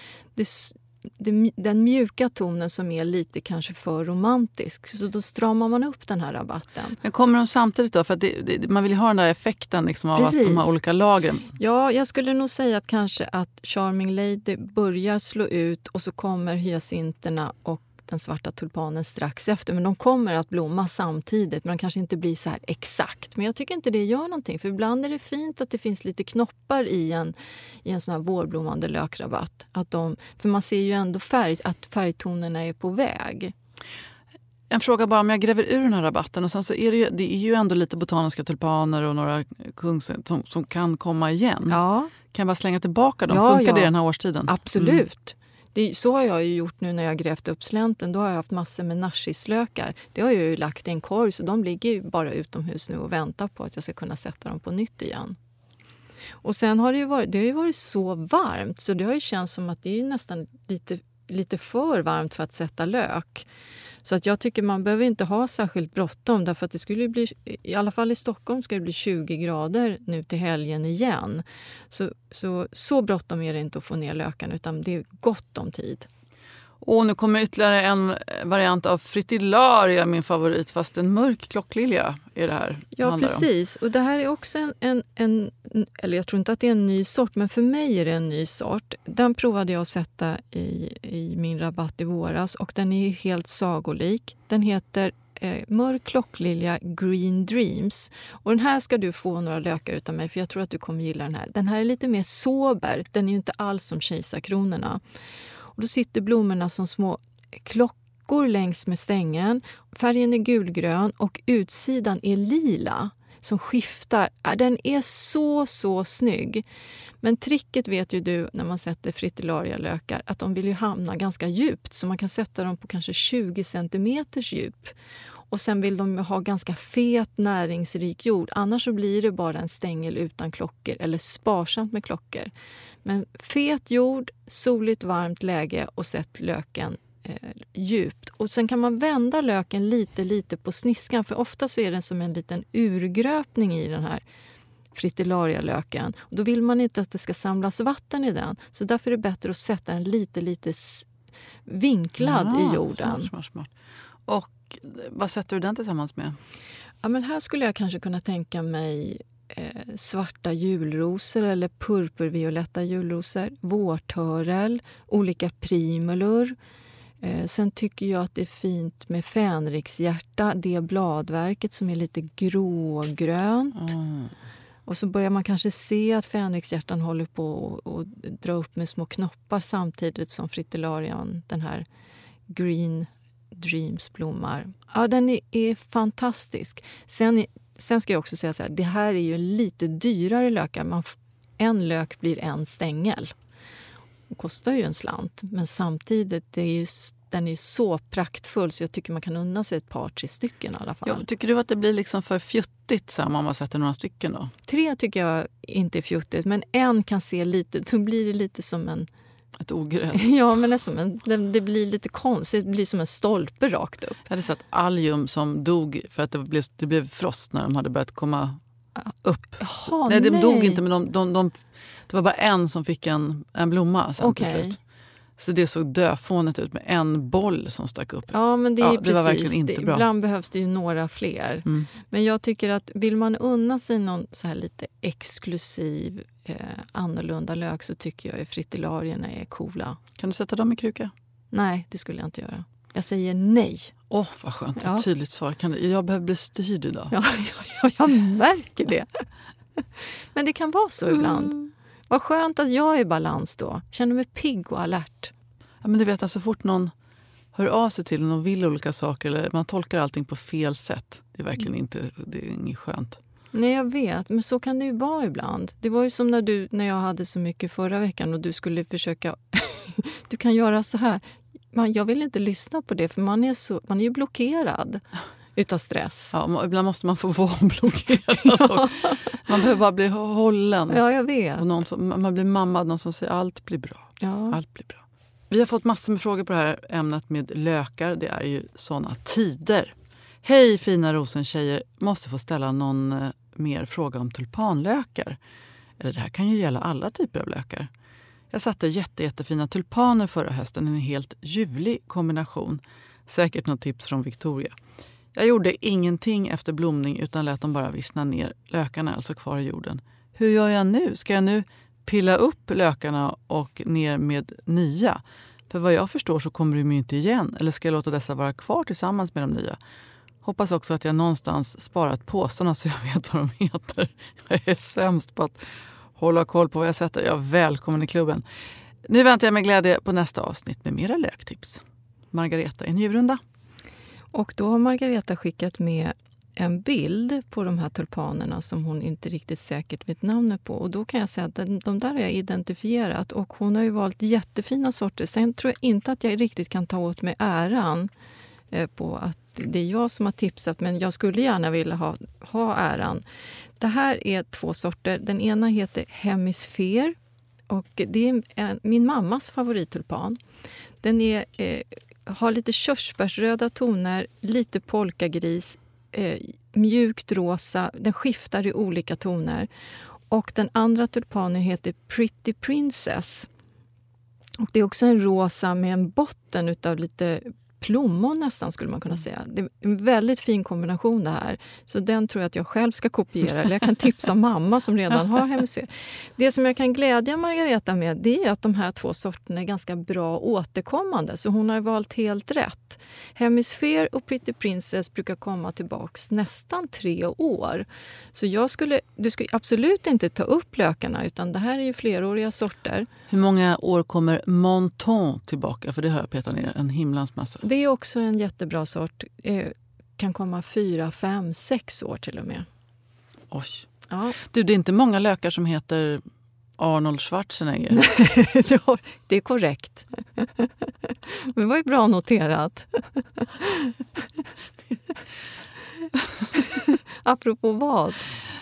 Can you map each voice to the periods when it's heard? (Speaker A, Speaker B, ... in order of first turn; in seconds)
Speaker A: 0.3-7.0, 10.2-10.7, 11.6-33.5, 41.7-42.1, 43.3-43.9, 44.5-55.4, 56.4-63.4, 64.0-76.1, 83.0-105.0, 105.7-116.6, 117.2-124.9, 125.5-132.5, 133.0-144.2, 144.9-151.1, 151.7-153.3, 157.0-166.6, 167.2-173.9, 174.9-181.8, 182.5-193.3, 194.3-201.2, 204.7-209.1, 210.1-214.2, 219.0-220.8, 224.2-224.8, 228.3-240.0, 241.5-243.9, 244.8-245.0, 247.1-249.2, 249.8-255.3, 263.5-275.0, 275.6-276.3, 278.5-279.2, 280.9-281.6, 284.2-284.6, 334.3-348.1, 348.7-353.2, 353.8-357.1, 357.7-360.4, 361.0-369.7, 370.3-373.5, 374.6-403.1, 407.6-412.7, 414.1-414.4, 417.9-423.9, 426.5-428.3
Speaker B: 7.0-11.5, 34.7-41.8, 42.3-45.0, 76.8-83.5, 152.2-153.7, 154.2-156.4, 173.7-174.3, 201.0-204.5, 209.6-210.3, 214.3-218.6, 219.2-224.8, 225.4-230.1, 240.2-241.1, 244.1-247.1, 251.1-251.7, 255.8-256.9, 257.5-263.2, 276.3-281.0, 281.6-295.4, 296.0-297.9, 298.5-304.8, 305.3-319.8, 320.4-328.4, 329.1-333.4, 403.3-407.6, 413.5-413.9, 414.4-416.2, 416.8-418.0, 426.1-426.6